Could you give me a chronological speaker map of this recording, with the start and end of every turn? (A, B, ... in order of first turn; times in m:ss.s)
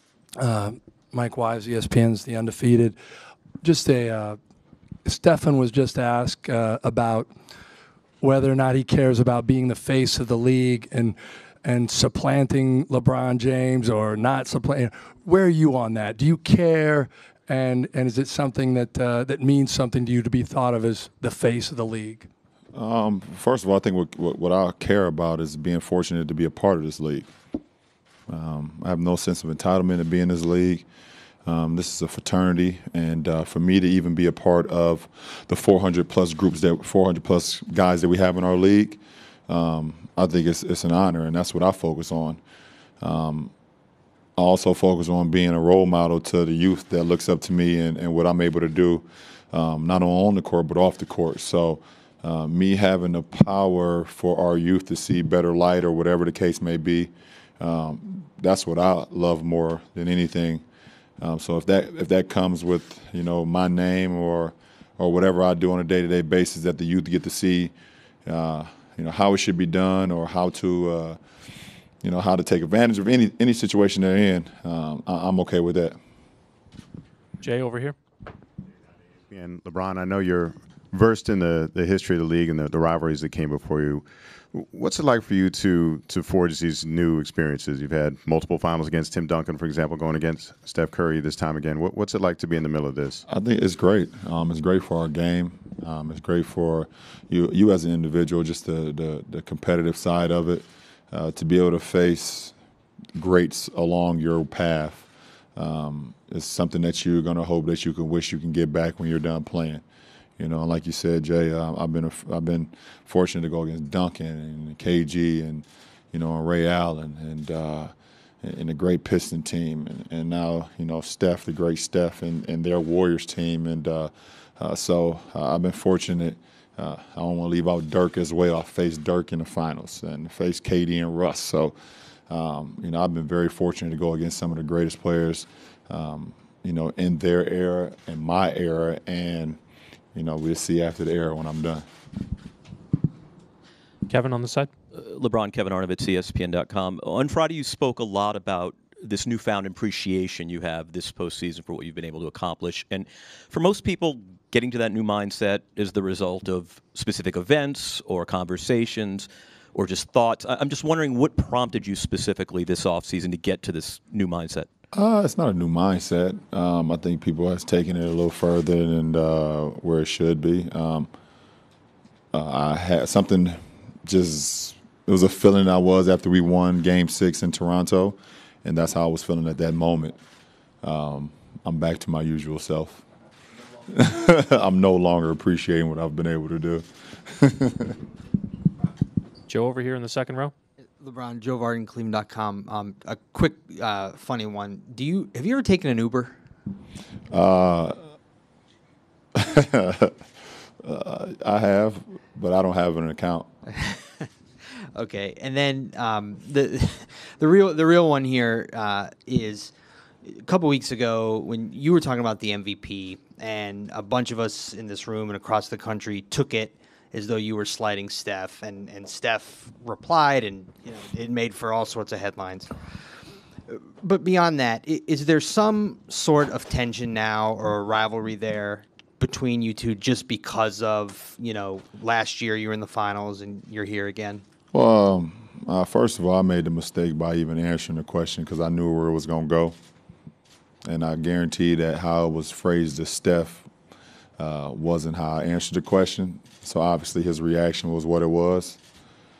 0:00.4-0:03.0 A
0:03.6-0:04.4 A
0:05.0-0:07.3 A
0:08.2-0:22.3 A
0:22.7-0:27.3 B
0:28.3-0:30.9 B
0:31.5-0:42.4 B
0:43.0-0:43.5 B
0:44.4-1:00.6 B
1:01.2-1:07.7 B
1:08.3-1:11.2 B
1:12.0-1:16.0 B
1:17.4-1:18.0 C
1:19.3-1:33.2 D
1:33.3-1:42.5 B
1:43.2-1:49.8 B
1:50.4-2:11.8 B
2:12.3-2:19.6 B
2:20.2-2:21.8 B
2:24.1-2:24.7 C
2:24.9-2:44.7 E
2:44.9-2:51.1 B
2:52.3-3:00.2 B
3:00.8-3:03.0 B
3:03.9-3:08.0 B
3:09.5-3:10.5 C
3:11.0-3:16.4 F
3:17.3-3:18.0 B
3:19.4-3:20.2 B
3:20.8-3:23.5 B
3:23.7-3:24.3 F
3:24.9-3:29.7 F
3:30.2-3:42.7 F
3:43.7-3:54.4 F
3:54.7-3:59.8 B
4:00.8-4:03.7 B
4:04.4-4:08.8 B